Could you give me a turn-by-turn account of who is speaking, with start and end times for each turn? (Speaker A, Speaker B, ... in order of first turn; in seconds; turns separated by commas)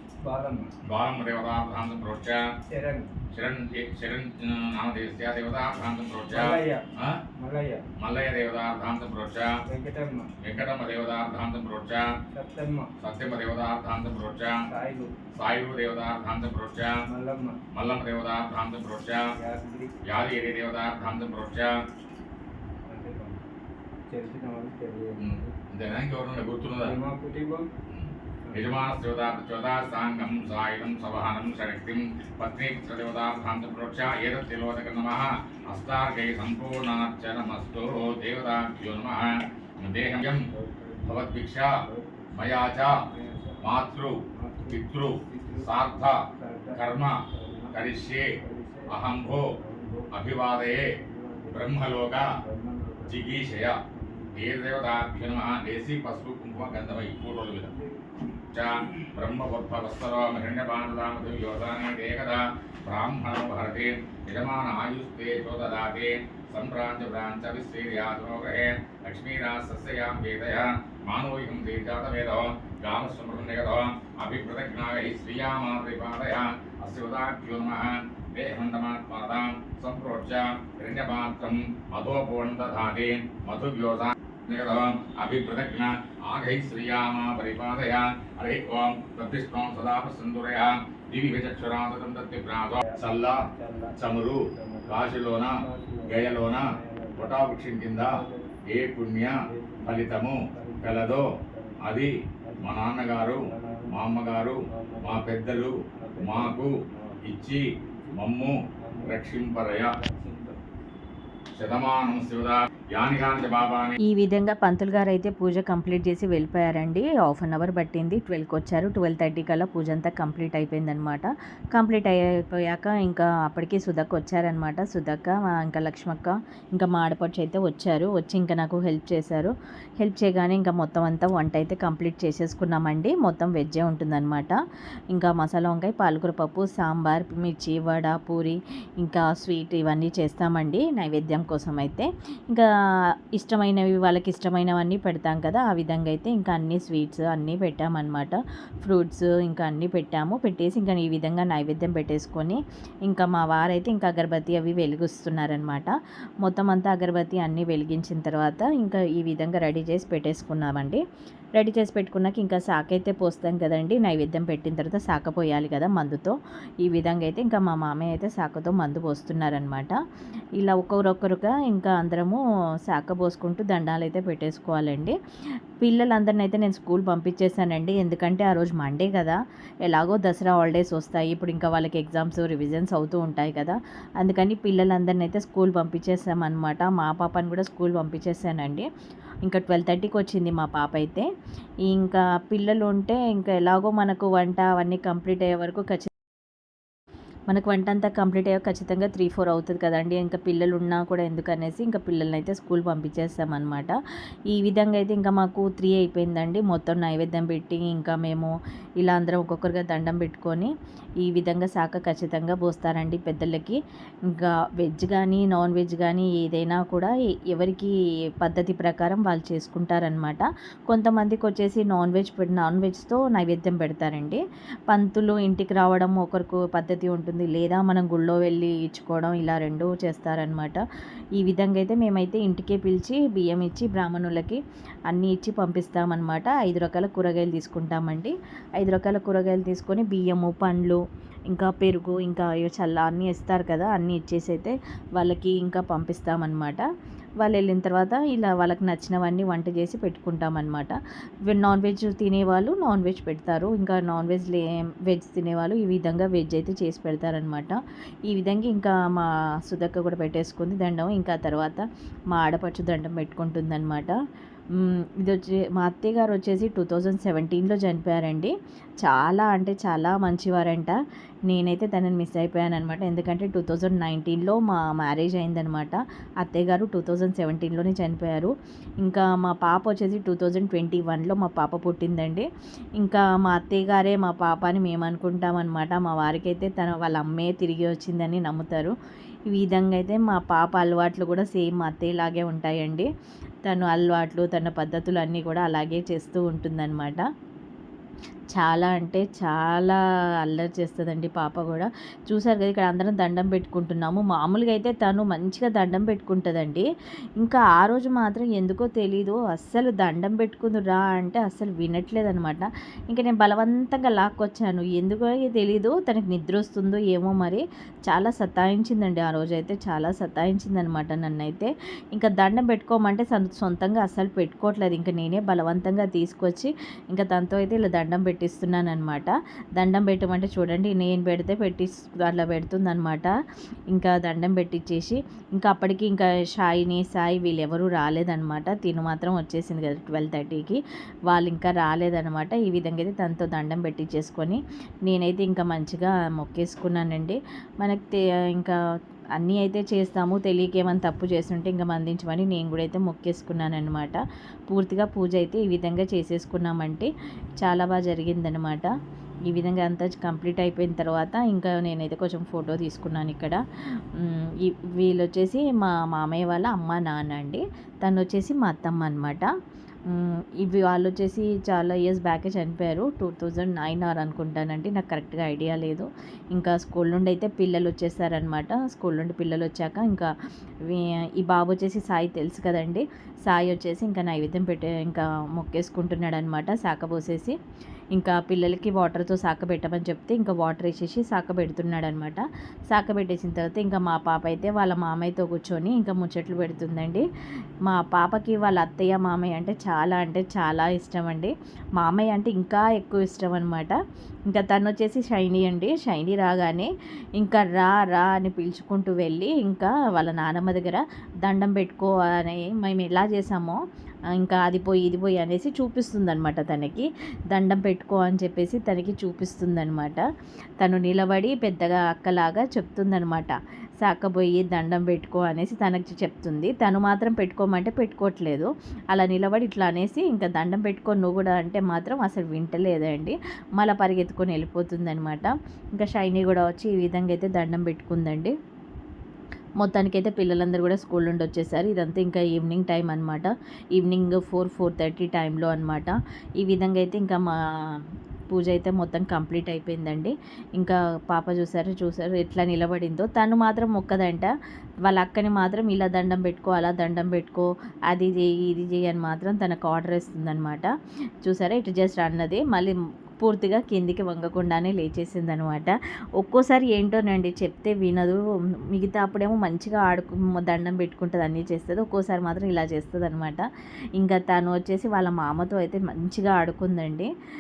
Speaker A: 0.2-0.8, Speaker B: 0.8-2.5, Speaker A: 2.7-3.1, Speaker B: 3.3-7.2, Speaker A: 6.3-6.8, Speaker A: 7.4-7.9, Speaker B: 8.0-9.6, Speaker A: 9.7-10.3, Speaker B: 10.4-12.1, Speaker A: 12.3-12.9, Speaker B: 13.0-14.6, Speaker A: 14.7-15.1, Speaker B: 15.3-17.0, Speaker A: 17.1-17.6, Speaker B: 17.7-19.3, Speaker A: 19.4-19.9, Speaker B: 20.0-21.7, Speaker A: 22.9-23.4, Speaker A: 24.1-25.5, Speaker B: 25.2-26.9, Speaker A: 26.8-27.7, Speaker B: 27.9-40.5, Speaker A: 40.5-43.8, Speaker B: 41.0-41.8, Speaker B: 42.3-43.0, Speaker B: 43.6-46.2, Speaker A: 44.3-45.7, Speaker A: 46.4-47.8, Speaker B: 46.7-47.2, Speaker B: 47.7-48.3, Speaker A: 48.4-50.3, Speaker B: 48.9-49.5, Speaker B: 50.1-50.9, Speaker A: 50.8-51.9, Speaker B: 51.5-52.3, Speaker A: 52.4-53.3, Speaker B: 53.0-53.8, Speaker A: 53.9-54.5, Speaker B: 54.3-57.7, Speaker A: 57.6-58.0, Speaker B: 58.5-93.5, Speaker A: 92.8-98.6, Speaker B: 94.0-101.3, Speaker A: 99.3-104.0, Speaker B: 101.8-109.9, Speaker A: 104.7-107.2, Speaker A: 107.8-108.2, Speaker A: 108.8-109.2, Speaker A: 109.9-110.6, Speaker B: 111.6-114.0, Speaker C: 114.0-134.6, Speaker C: 135.1-142.7, Speaker C: 143.4-155.9, Speaker C: 156.4-161.0, Speaker C: 161.6-170.0, Speaker C: 170.6-175.2, Speaker C: 175.8-188.9, Speaker C: 189.4-191.3, Speaker C: 191.9-196.1, Speaker C: 197.5-204.0, Speaker C: 204.5-210.7, Speaker C: 211.2-213.8, Speaker C: 214.3-224.4, Speaker C: 224.9-230.8, Speaker C: 231.4-246.8, Speaker C: 247.4-251.0, Speaker C: 251.5-264.1, Speaker C: 264.8-271.0, Speaker C: 271.5-282.5, Speaker C: 283.0-288.9, Speaker C: 289.5-293.1, Speaker C: 293.7-297.2, Speaker C: 298.6-306.9, Speaker C: 307.4-333.3, Speaker C: 333.9-348.8, Speaker C: 349.4-358.9, Speaker C: 359.5-363.6, Speaker C: 364.1-369.5, Speaker C: 370.1-380.3, Speaker C: 380.9-387.6, Speaker C: 388.1-397.2, Speaker C: 397.9-404.0, Speaker C: 404.5-413.8, Speaker C: 414.4-420.2, Speaker C: 420.8-438.5, Speaker C: 439.8-447.5, Speaker C: 448.5-454.5, Speaker C: 455.1-460.9, Speaker C: 461.4-468.4, Speaker C: 468.9-473.6, Speaker C: 474.2-477.3